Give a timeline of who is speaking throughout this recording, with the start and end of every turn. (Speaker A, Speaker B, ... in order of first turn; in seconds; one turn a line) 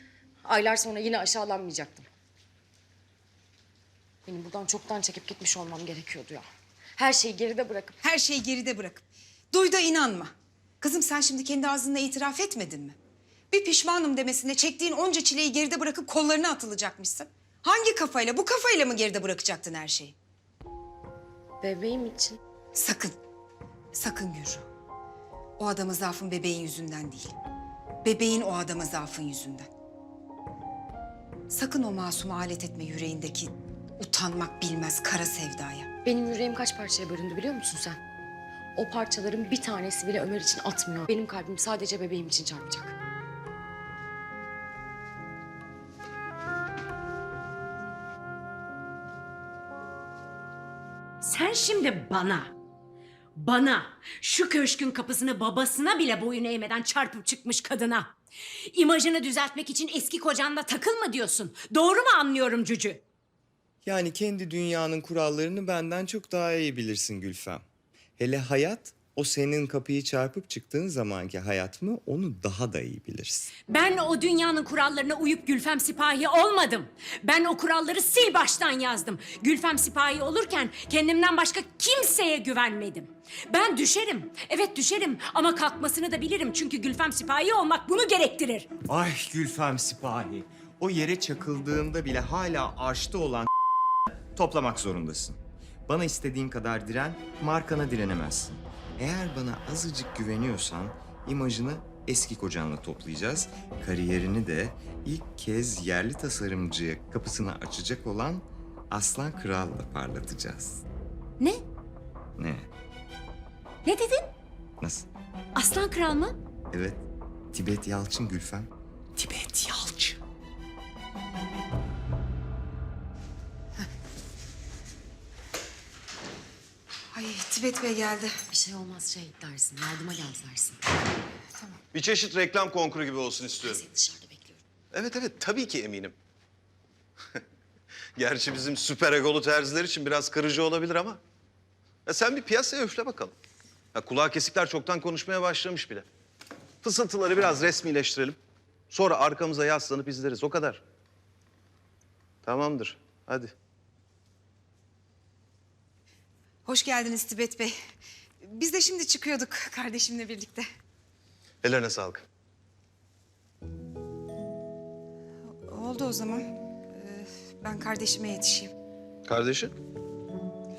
Speaker A: 0.4-2.1
Speaker A: 4.2-6.5
Speaker A: 7.0-8.0
Speaker B: 8.0-13.0
Speaker B: 13.5-20.1
Speaker A: 21.6-22.4
Speaker B: 22.7-23.2
Speaker B: 23.9-24.6
Speaker B: 25.6-27.3
Speaker B: 28.0-29.7
Speaker B: 31.5-35.9
Speaker A: 36.0-38.0
Speaker A: 38.7-42.9
Speaker C: 51.2-52.5
Speaker C: 53.4-58.1
Speaker C: 58.7-63.0
Speaker D: 63.8-67.6
Speaker D: 68.2-73.5
Speaker C: 73.7-88.7
Speaker D: 88.9-93.5
Speaker D: 94.3-110.8
Speaker C: 111.4-111.6
Speaker D: 112.4-112.7
Speaker C: 113.8-114.3
Speaker D: 114.8-115.1
Speaker C: 115.5-116.3
Speaker D: 116.7-117.0
Speaker D: 117.5-118.7
Speaker B: 127.1-128.3
Speaker A: 128.5-130.8
Speaker E: 131.9-133.8
Speaker A: 133.6-134.6
Speaker E: 134.9-136.2
Speaker E: 138.2-141.2
Speaker E: 142.1-143.3
Speaker E: 143.9-146.1
Speaker E: 146.8-148.4
Speaker E: 148.9-150.8
Speaker E: 152.4-153.5
Speaker B: 156.7-157.7
Speaker B: 158.4-160.7
Speaker E: 161.6-162.2
Speaker B: 165.6-168.7
Speaker E: 169.2-169.7